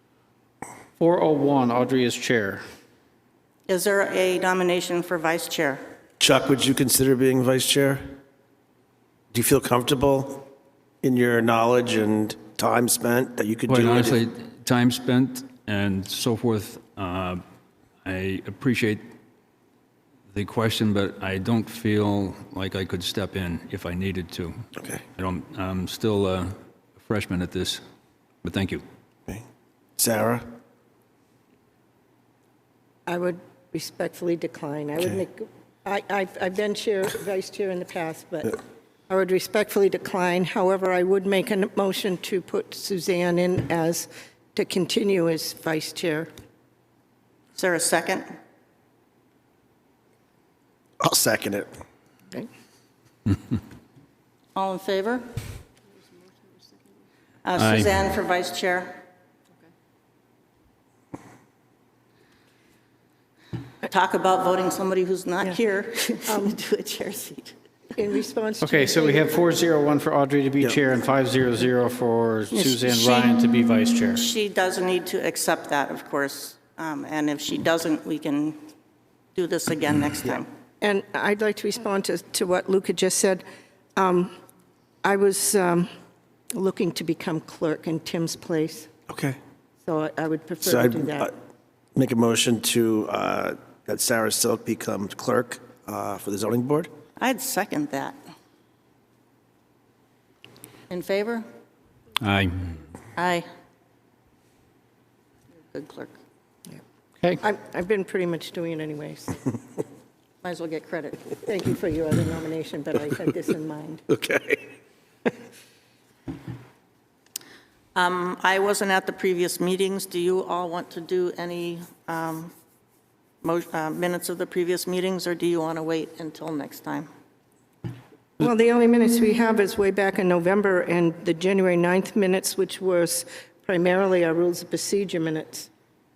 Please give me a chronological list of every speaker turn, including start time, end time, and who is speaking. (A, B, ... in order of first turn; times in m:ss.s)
0:01.0-0:02.6 A
0:03.7-0:05.8 B
0:06.2-0:08.0 C
0:09.3-0:10.4 C
0:11.0-0:14.2 C
0:13.7-0:17.4 D
0:18.0-0:19.0 D
0:20.3-0:24.6 D
0:25.2-0:27.8 D
0:28.4-0:28.8 D
0:30.0-0:30.4 C
0:33.1-0:46.3 E
0:47.6-0:48.3 B
0:51.0-0:51.7 C
0:54.5-0:55.4 B
0:57.4-0:59.0 B
0:57.6-0:58.0 D
1:03.8-1:07.5 B
1:06.2-1:06.5 E
1:08.0-1:09.3 E
1:08.6-1:14.2 A
1:12.5-1:13.3 B
1:14.2-1:18.6 B
1:19.3-1:20.5 B
1:20.8-1:23.4 E
1:24.0-1:24.3 E
1:25.0-1:25.9 E
1:26.5-1:28.9 E
1:29.1-1:29.4 C
1:29.8-1:31.3 E
1:30.6-1:31.3 C
1:31.9-1:36.9 C
1:37.2-1:38.2 B
1:40.9-1:41.4 B
1:42.2-1:42.7 D
1:43.2-1:43.4 B
1:45.7-1:46.2 B
1:47.4-1:49.5 E
1:50.4-1:51.3 B
1:51.4-1:54.0 E
1:54.1-1:54.7 C
1:57.9-2:02.5 B
2:03.4-2:07.1 B
2:08.4-2:15.7 E